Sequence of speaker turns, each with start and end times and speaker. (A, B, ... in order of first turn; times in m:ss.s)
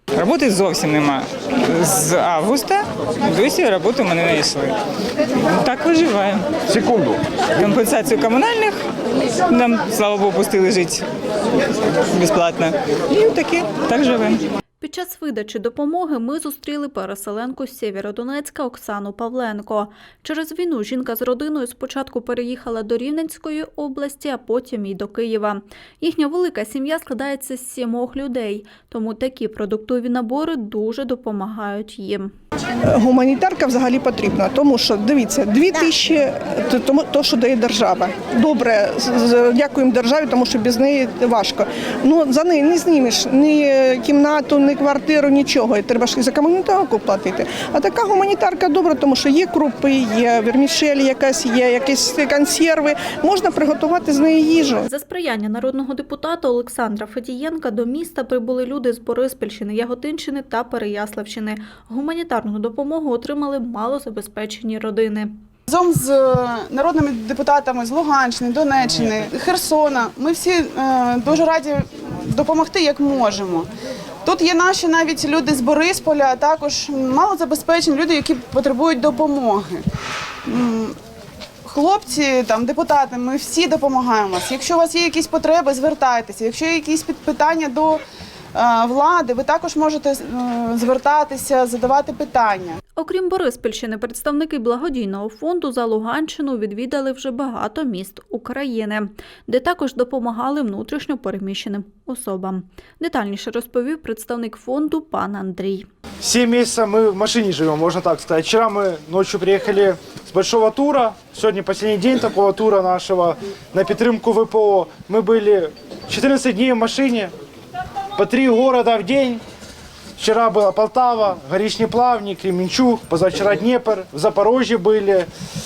0:00.2-0:04.8 A
0:05.4-0:07.0 A
0:07.6-0:08.8 A
0:09.5-0:11.0 A
0:12.1-0:14.4 A
0:14.8-0:32.3 B
0:32.9-0:54.9 C
0:54.9-1:05.3 B
1:05.7-1:13.7 D
1:14.2-1:19.8 D
1:20.4-1:21.0 D
1:21.6-1:28.0 D
1:28.5-1:32.8 D
1:33.0-1:45.9 B
1:46.2-1:57.3 E
1:58.1-1:59.4 E
2:00.2-2:05.3 E